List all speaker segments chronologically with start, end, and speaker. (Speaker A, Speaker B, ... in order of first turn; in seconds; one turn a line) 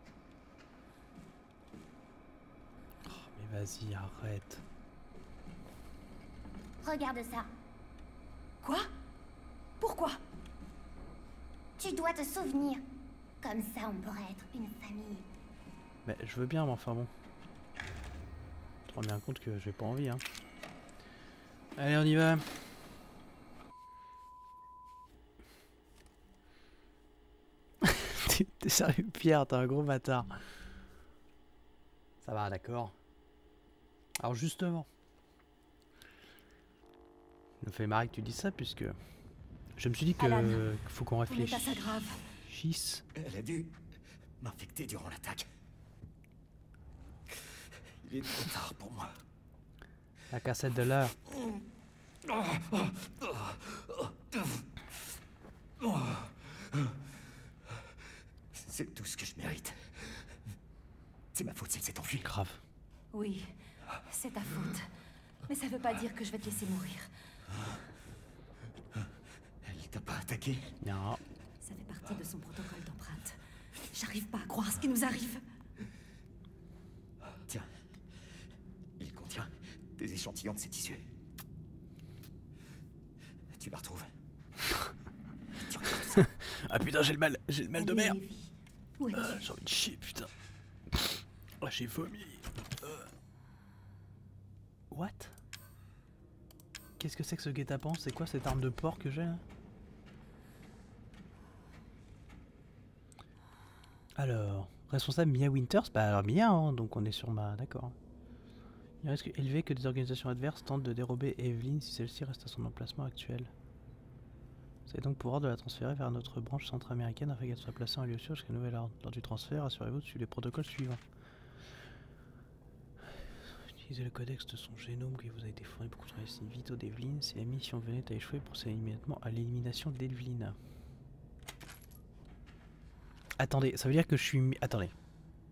Speaker A: 3.0-4.6
Speaker B: 6.8-7.5
Speaker C: 8.6-8.9
Speaker C: 9.8-10.2
Speaker B: 11.8-12.8
Speaker B: 13.4-15.3
Speaker A: 16.0-17.1
Speaker A: 18.9-20.2
Speaker A: 21.8-22.5
Speaker A: 27.8-30.4
Speaker A: 32.2-32.9
Speaker A: 34.2-34.9
Speaker A: 37.6-39.0
Speaker A: 39.8-41.9
Speaker C: 40.2-40.6
Speaker C: 41.3-42.2
Speaker A: 42.5-43.0
Speaker D: 43.1-43.7
Speaker D: 44.4-45.5
Speaker D: 48.0-49.1
Speaker A: 50.3-51.1
Speaker D: 52.7-54.0
Speaker D: 58.5-60.0
Speaker D: 61.3-62.3
Speaker A: 62.2-62.6
Speaker C: 63.1-63.5
Speaker C: 64.0-64.9
Speaker C: 65.5-67.1
Speaker D: 69.6-70.7
Speaker A: 70.8-71.2
Speaker C: 71.6-73.4
Speaker C: 73.9-75.4
Speaker D: 79.0-81.0
Speaker D: 83.5-84.1
Speaker D: 85.6-86.3
Speaker A: 86.2-88.2
Speaker C: 87.8-89.4
Speaker A: 89.1-90.3
Speaker A: 90.9-93.0
Speaker A: 94.9-95.3
Speaker A: 97.0-99.4
Speaker A: 104.2-107.9
Speaker A: 109.0-113.5
Speaker A: 114.9-121.0
Speaker A: 123.8-130.6
Speaker A: 133.4-134.9